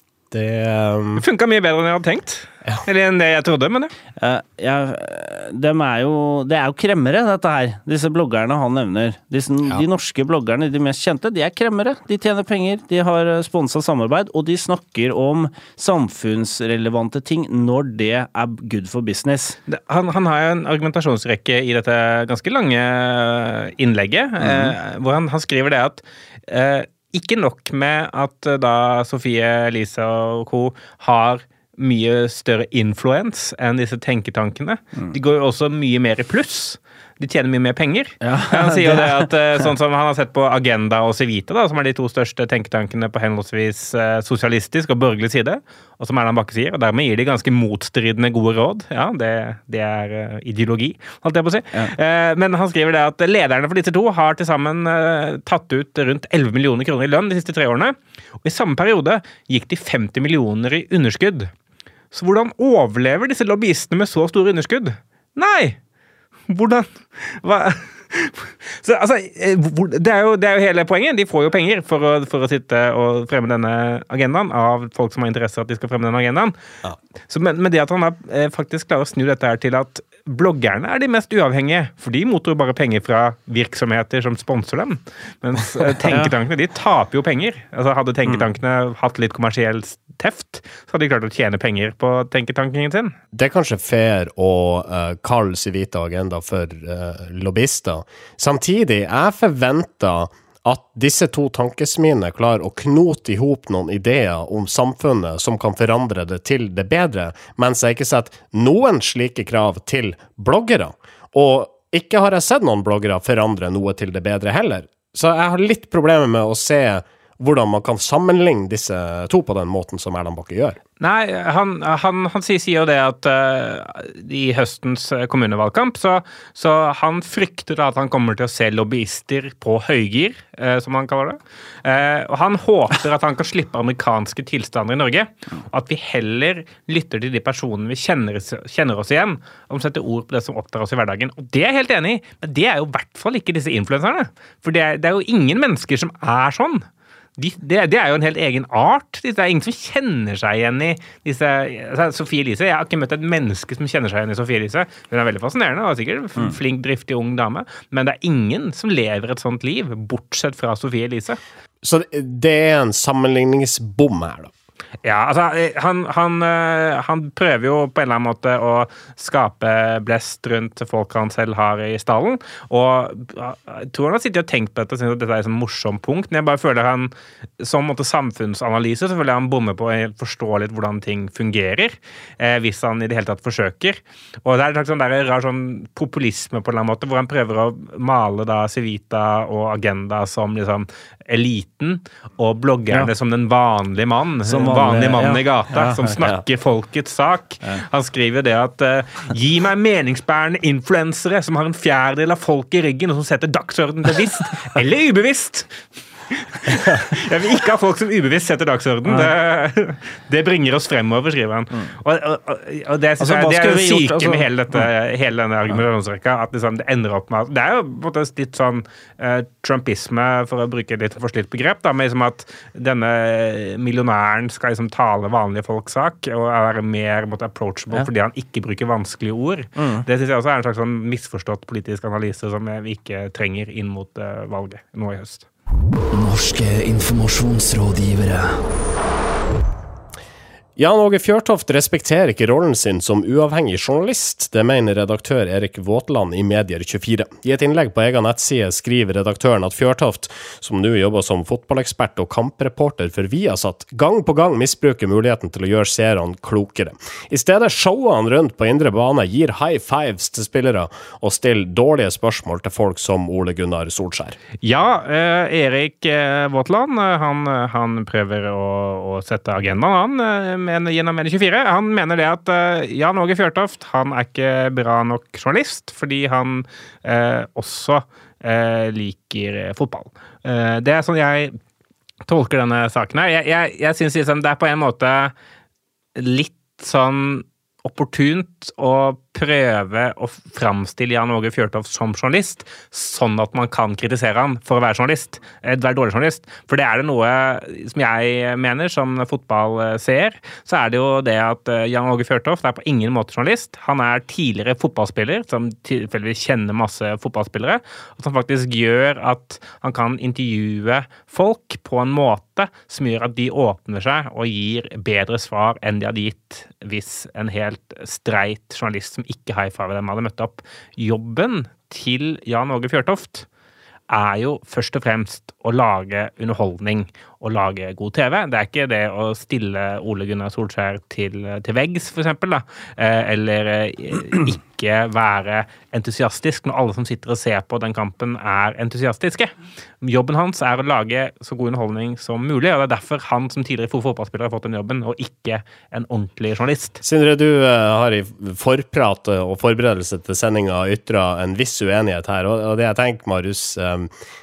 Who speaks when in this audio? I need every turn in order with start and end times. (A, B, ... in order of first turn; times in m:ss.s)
0:00.3-0:01.2 A
0:01.2-0:03.9 B
0:04.2-0:19.6 C
0:19.7-1:01.5 B
0:38.2-0:39.3 C
1:02.1-1:05.8 B
1:06.5-1:16.5 B
1:17.3-1:33.2 B
1:26.0-1:26.3 C
1:33.3-2:00.8 A
2:01.0-2:26.8 B
2:27.4-2:41.4 B
2:41.8-2:44.5 A
2:45.0-3:25.7 B
3:14.4-3:16.2 C
3:26.3-3:55.5 B
3:33.2-3:34.8 C
3:49.8-3:50.0 C
3:56.1-3:58.6 D
4:00.8-4:24.4 A
4:24.6-4:41.6 B
4:42.3-4:45.3 B
4:46.2-5:23.5 B
5:24.1-5:47.0 B
5:47.0-5:54.1 A